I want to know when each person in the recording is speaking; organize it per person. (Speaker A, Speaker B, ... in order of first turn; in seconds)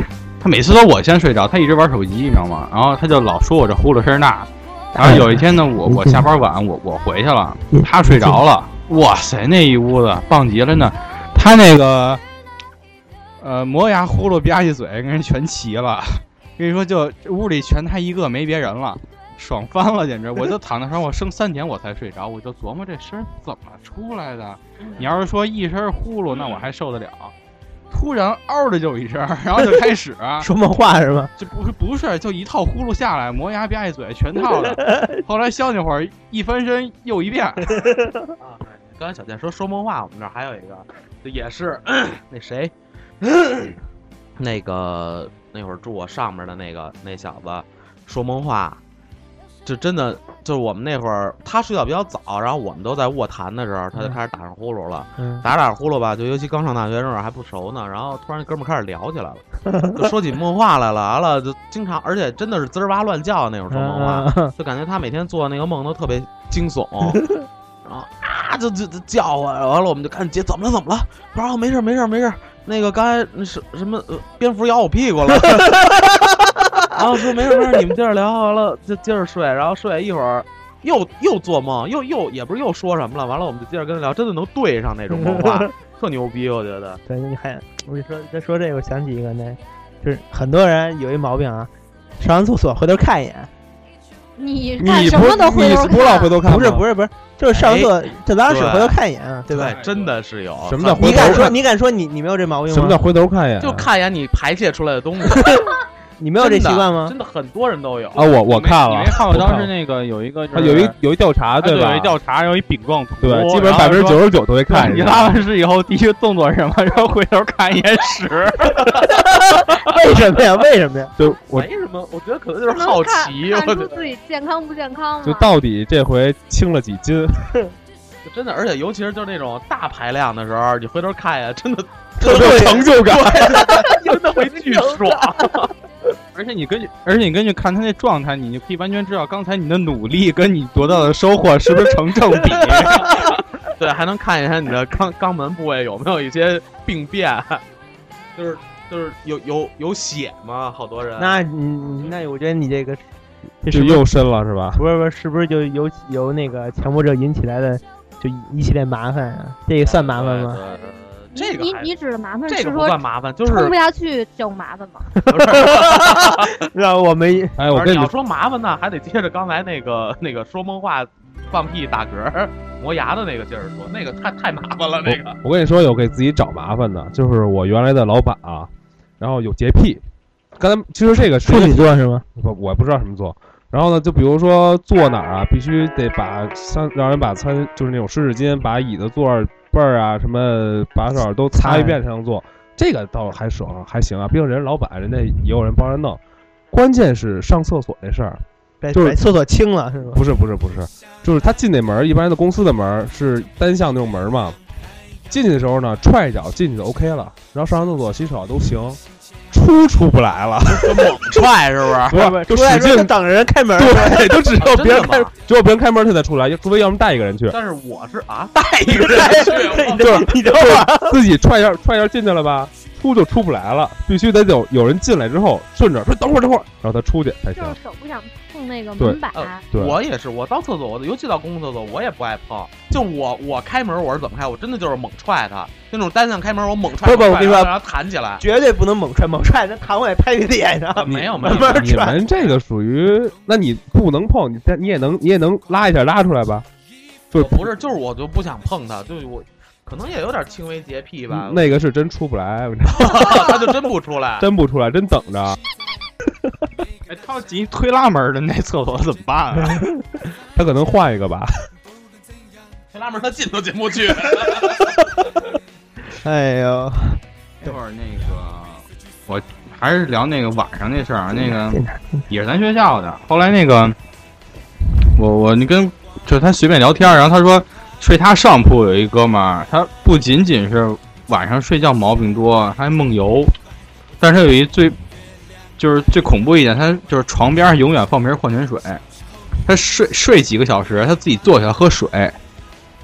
Speaker A: 0.4-12.2, 13.4-27.3, 27.9-30.5, 31.4-37.7, 99.6-100.1, 108.5-111.0, 111.6-118.8, 136.3-143.1, 257.1-259.8, 267.6-274.0, 275.2-283.5, 284.2-285.0, 285.8-289.0, 289.7-292.4
Speaker B: 5.0-6.2, 7.7-8.4, 30.4-31.3, 37.8-38.2, 55.2-55.4, 59.7-60.0, 63.7-64.5, 85.2-85.7, 87.1-93.5, 96.5-99.8, 101.0-103.0, 105.4-105.7, 106.2-107.1, 118.8-121.1, 132.2-132.9, 151.2-153.0, 153.6-154.1, 154.8-160.6, 165.3-167.6, 181.4-182.2, 191.6-192.0, 198.8-200.2, 212.1-215.3, 218.9-221.2, 237.0-237.7, 238.4-242.2, 266.2-267.2, 271.4-272.2
Speaker C: 38.4-43.8, 44.4-48.8, 49.6-67.2, 67.8-87.0, 97.5-101.6, 103.6-105.7, 106.4-108.3, 121.5-124.0, 128.2-135.7, 142.9-147.6, 148.4-151.4, 159.8-161.9, 162.5-163.8, 165.3-166.6, 167.7-175.4, 210.7-212.2, 214.6-215.3, 217.5-220.4, 229.3-238.4, 240.9-242.6, 247.3-251.8, 252.9-254.5, 262.9-265.0
Speaker D: 94.4-96.4, 122.7-125.5, 161.3-165.2, 227.6-229.6
Speaker E: 94.8-96.9, 100.6-101.6, 102.7-103.9, 108.1-109.7, 110.5-112.2, 113.2-115.4, 121.2-121.7, 125.2-127.5, 132.2-133.7, 153.7-154.8, 167.6-168.1, 175.1-180.0, 180.6-196.2, 196.7-199.2, 200.1-204.6, 205.3-211.5, 212.1-213.1, 213.8-217.6, 220.0-227.8, 229.0-230.0, 241.3-246.7, 247.3-247.7, 251.3-253.8, 254.4-255.6, 260.5-261.7